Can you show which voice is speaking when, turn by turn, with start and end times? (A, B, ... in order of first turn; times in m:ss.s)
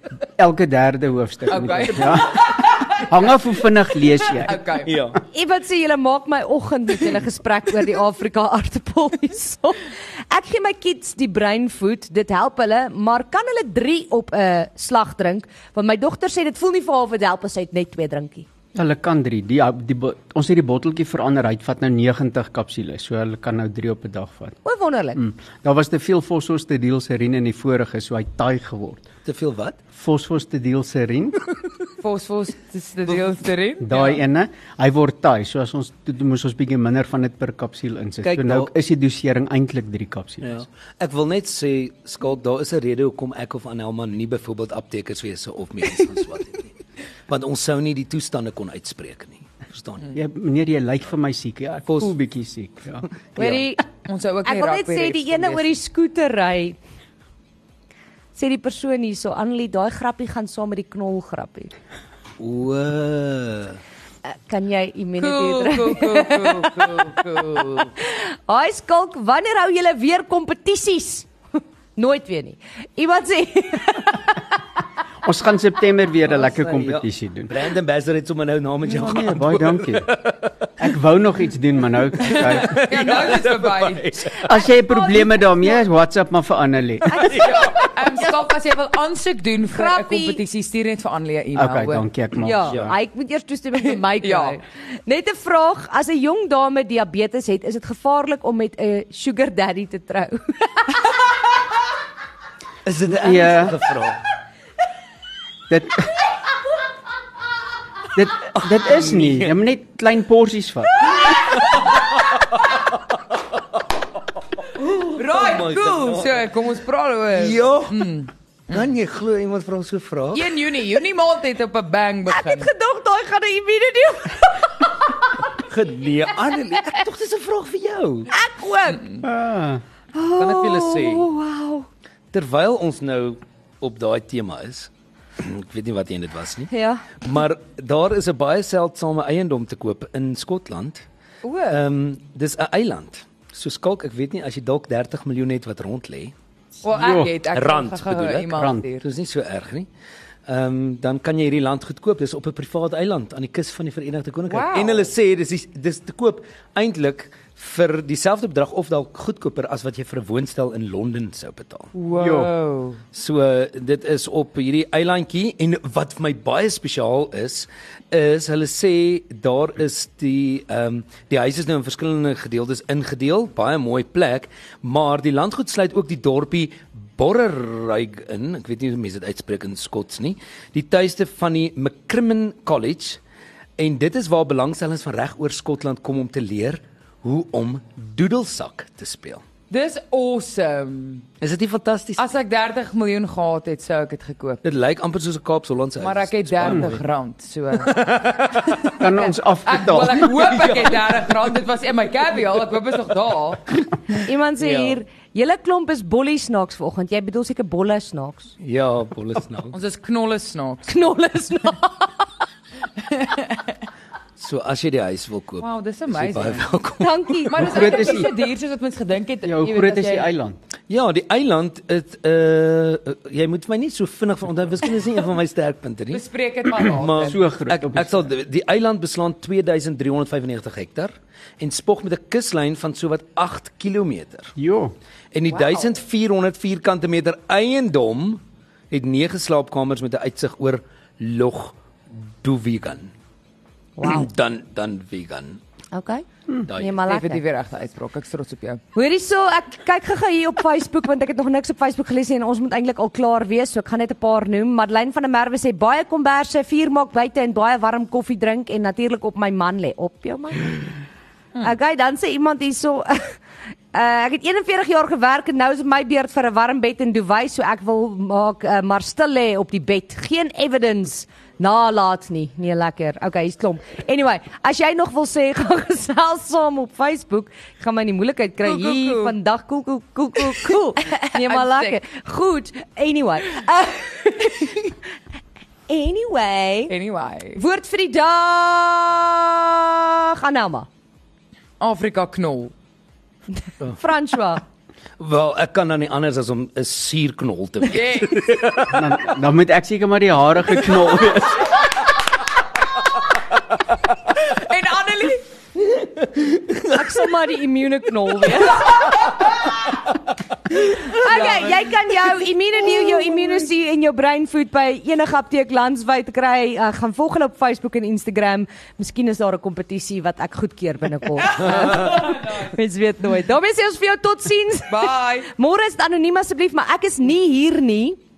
0:00.4-0:05.1 A
0:01.5-0:05.0 B
0:04.8-0:05.2 C
0:05.3-0:18.5 D
0:18.7-0:24.6 A
0:24.6-0:25.2 D
0:25.2-0:29.1 A
0:29.2-0:29.8 C
0:29.9-0:31.6 A
0:32.0-0:34.2 B
0:33.8-0:40.6 A
0:38.2-0:38.7 C
0:40.4-0:46.7 C
0:47.3-0:50.1 C
0:50.1-0:53.6 A
0:51.8-0:52.2 C
0:53.4-0:53.8 D
0:53.9-0:55.7 B
0:54.4-0:56.8 D
0:58.3-1:01.7 D
1:02.4-1:03.8 C
1:04.2-1:07.2 D
1:05.2-1:07.9 B
1:07.9-1:11.3 D
1:12.0-1:14.5 D
1:15.2-1:17.5 A
1:16.3-1:20.9 C
1:18.8-1:20.1 A
1:20.8-1:22.8 A
1:22.2-1:24.6 C
1:22.6-1:24.3 B
1:24.4-1:27.4 A
1:24.8-1:25.9 D
1:27.1-1:28.1 D
1:27.2-1:27.6 C
1:27.3-1:32.1 B
1:29.7-1:30.4 D
1:31.5-1:32.9 A
1:32.4-1:41.0 D
1:32.6-1:32.9 C
1:33.9-1:34.6 B
1:42.8-1:44.2 C
1:43.0-1:43.8 A
1:45.7-1:46.1 A
1:48.1-1:51.1 A
1:48.5-1:49.6 C
1:51.0-1:53.1 C
1:54.7-1:56.5 C
1:54.9-1:58.3 B
1:57.3-1:58.1 C
1:58.7-2:00.5 C
2:00.3-2:02.7 B
2:02.3-2:05.4 D
2:05.6-2:08.3 C
2:08.3-2:09.2 D
2:09.2-2:09.8 A
2:10.1-2:11.9 D
2:10.3-2:11.3 C
2:12.3-2:21.0 C
2:16.7-2:17.1 D
2:21.4-2:21.7 B
2:21.7-2:26.3 C
2:26.8-2:29.1 B
2:27.0-2:27.3 A
2:27.3-2:29.9 C
2:28.6-2:28.8 A
2:30.5-2:41.9 C
2:34.5-2:35.1 B
2:41.9-2:43.0 B
2:42.2-2:42.5 A
2:43.1-3:03.2 C
3:03.8-3:09.4 C
3:09.7-3:11.3 B
3:11.4-3:12.2 C
3:12.2-3:14.6 B
3:14.6-3:17.0 C
3:16.0-3:18.1 B
3:17.8-3:18.9 C
3:19.0-3:20.6 A
3:19.6-3:23.7 B
3:20.4-3:21.2 C
3:24.1-3:28.5 D
3:24.6-3:25.0 C
3:28.6-3:29.8 C
3:29.7-3:31.0 B
3:30.9-3:32.1 D
3:33.1-3:33.6 B
3:34.4-3:37.5 C
3:35.6-3:36.7 B
3:37.0-3:38.3 D
3:37.5-3:40.3 B
3:37.6-3:38.3 A
3:39.4-3:40.6 A
3:40.9-3:54.5 C
3:46.1-3:47.4 B
3:47.0-3:48.3 A
3:54.6-3:54.9 A
3:55.3-4:03.1 C
3:55.5-3:55.8 B
4:04.0-4:04.3 D
4:04.0-4:05.6 C
4:05.9-4:07.4 D
4:06.6-4:07.0 C
4:07.0-4:08.8 B
4:08.9-4:21.0 D
4:21.6-4:23.4 D
4:23.9-4:45.0 D
4:38.6-4:39.3 B
4:41.1-4:42.0 B
4:45.9-4:46.9 D
4:46.9-4:47.6 B
4:47.6-4:50.9 D
4:51.8-4:52.7 B
4:53.9-4:54.6 D
4:55.2-4:59.3 C
4:57.9-4:58.5 B
4:58.9-5:01.8 A
5:04.4-5:05.5 B
5:06.4-5:07.0 C
5:06.8-5:09.1 D
5:10.9-5:28.2 D
5:11.2-5:11.8 B
5:21.4-5:22.6 B
5:21.6-5:22.2 C
5:24.9-5:25.5 B